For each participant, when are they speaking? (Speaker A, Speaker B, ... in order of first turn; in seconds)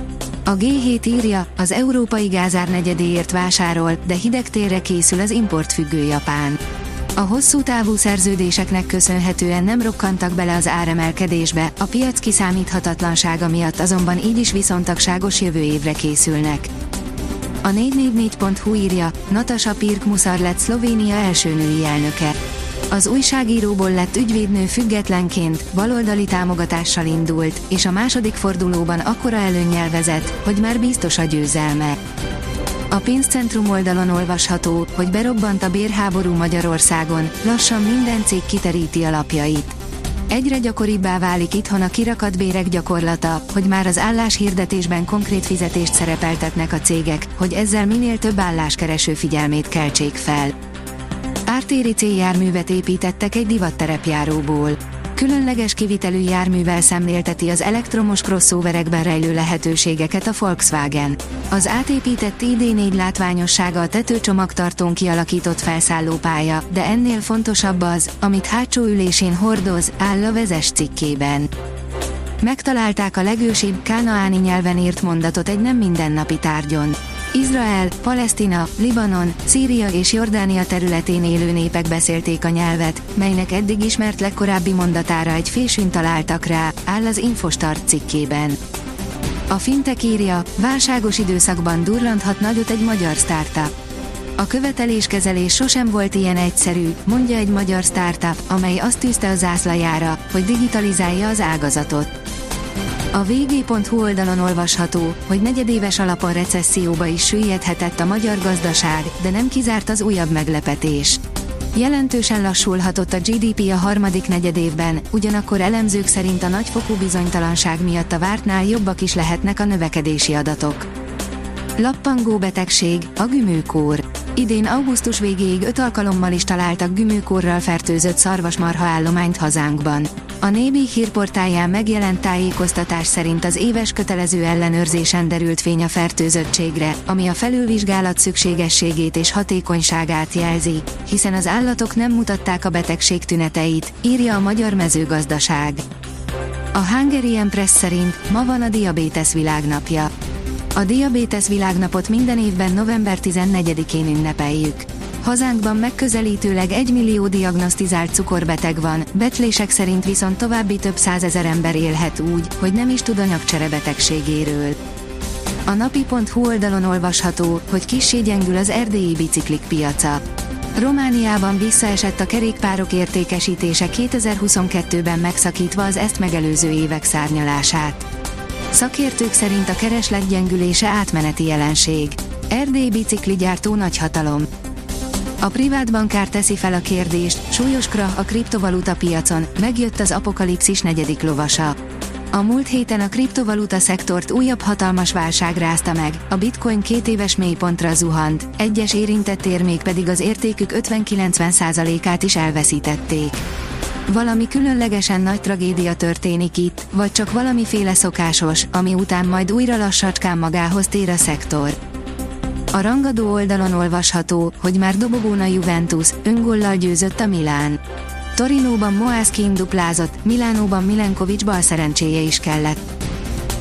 Speaker A: 0.4-6.6, 7.2-16.7, 17.6-22.4, 22.9-32.0, 32.9-39.8, 40.3-50.5, 51.5-71.5, 72.4-88.6, 89.5-93.7, 94.4-102.1, 103.1-111.2, 111.7-120.9, 121.8-145.8, 146.7-150.1, 150.7-164.8, 165.7-170.2, 170.7-178.1, 178.7-184.5, 185.4-191.8, 192.3-203.4, 204.1-211.8, 212.7-217.8, 218.3-222.8